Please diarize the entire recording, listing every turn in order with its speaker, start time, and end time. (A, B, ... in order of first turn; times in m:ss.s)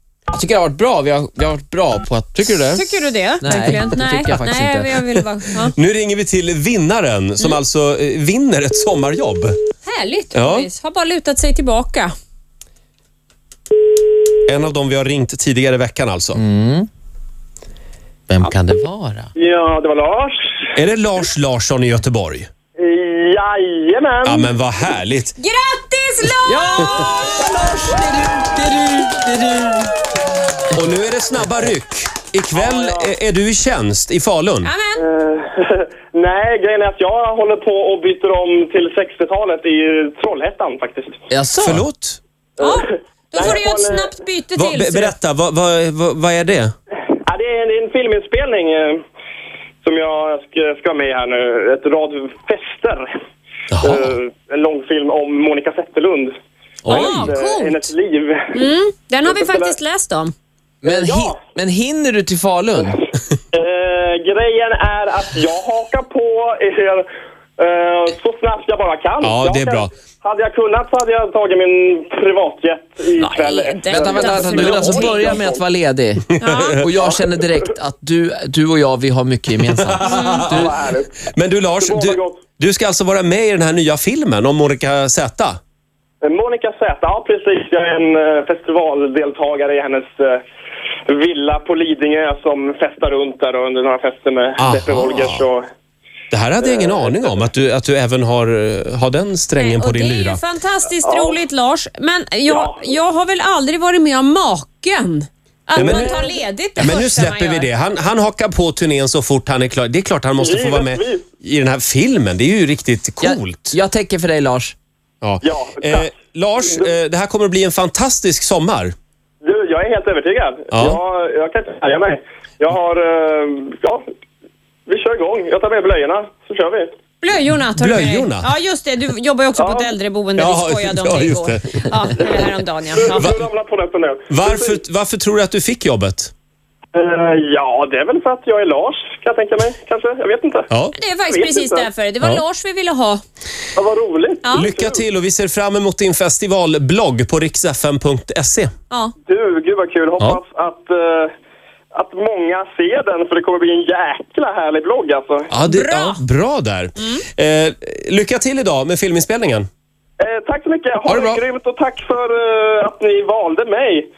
0:00.3-0:02.8 A
0:02.6-0:05.8 B
0:03.4-0:05.2 A
0:05.8-0:09.6 C
0:09.8-0:12.1 B
0:10.3-0:10.7 C
0:14.5-0:16.4 C
0:16.4-0:16.9 A
0:18.3-0:19.3 A
0:19.4-0:20.7 D
0:20.7-0:22.5 C
0:22.8-0:24.5 D
0:24.2-0:25.4 C
0:25.4-0:26.9 B
0:26.4-0:29.9 A
0:30.7-0:34.7 C
0:32.6-0:33.1 D
0:34.6-0:35.0 B
0:35.0-0:41.2 D
0:41.3-0:41.8 A
0:41.6-0:42.2 C
0:42.6-0:44.1 D
0:42.6-0:45.1 B
0:44.6-0:46.7 C
0:47.2-0:49.0 D
0:49.8-0:53.1 D
0:53.7-0:54.1 C
0:53.8-0:56.3 D
0:56.8-0:57.3 A
0:56.9-0:58.6 D
0:56.9-0:57.8 B
0:58.6-1:00.3 B
0:59.2-0:59.8 D
1:00.8-1:01.4 D
1:00.8-1:03.0 A
1:03.5-1:07.1 D
1:07.6-1:15.6 D
1:09.2-1:09.9 C
1:13.2-1:15.4 B
1:13.9-1:16.2 A
1:16.4-1:16.8 B
1:16.5-1:16.8 C
1:16.8-1:20.8 A
1:19.6-1:20.7 C
1:20.0-1:20.5 B
1:20.4-1:21.2 D
1:21.3-1:25.6 C
1:21.8-1:22.4 D
1:26.2-1:30.4 D
1:31.1-1:35.7 D
1:34.6-1:35.4 C
1:36.3-1:40.4 C
1:36.6-1:37.2 D
1:39.6-1:47.7 B
1:41.0-1:41.4 D
1:42.5-1:43.0 D
1:45.8-1:46.2 C
1:45.8-1:46.4 D
1:46.8-1:53.8 C
1:50.4-1:51.2 D
1:53.2-1:54.7 A
1:55.2-1:59.0 C
1:55.4-1:56.9 D
1:59.4-2:04.0 D
2:00.7-2:01.0 C
2:04.9-2:06.9 D
2:07.2-2:13.3 B
2:07.8-2:08.5 C
2:09.6-2:09.9 D
2:10.4-2:11.9 C
2:12.9-2:14.8 D
2:14.3-2:16.3 C
2:16.9-2:20.7 D
2:20.7-2:20.9 C
2:20.9-2:23.2 B
2:21.3-2:21.9 D
2:23.8-2:25.0 D
2:24.5-2:28.7 C
2:29.2-2:31.3 D
2:31.9-2:35.5 D
2:35.5-2:39.7 C
2:35.6-2:36.2 B
2:40.2-2:44.1 D
2:41.1-2:41.4 C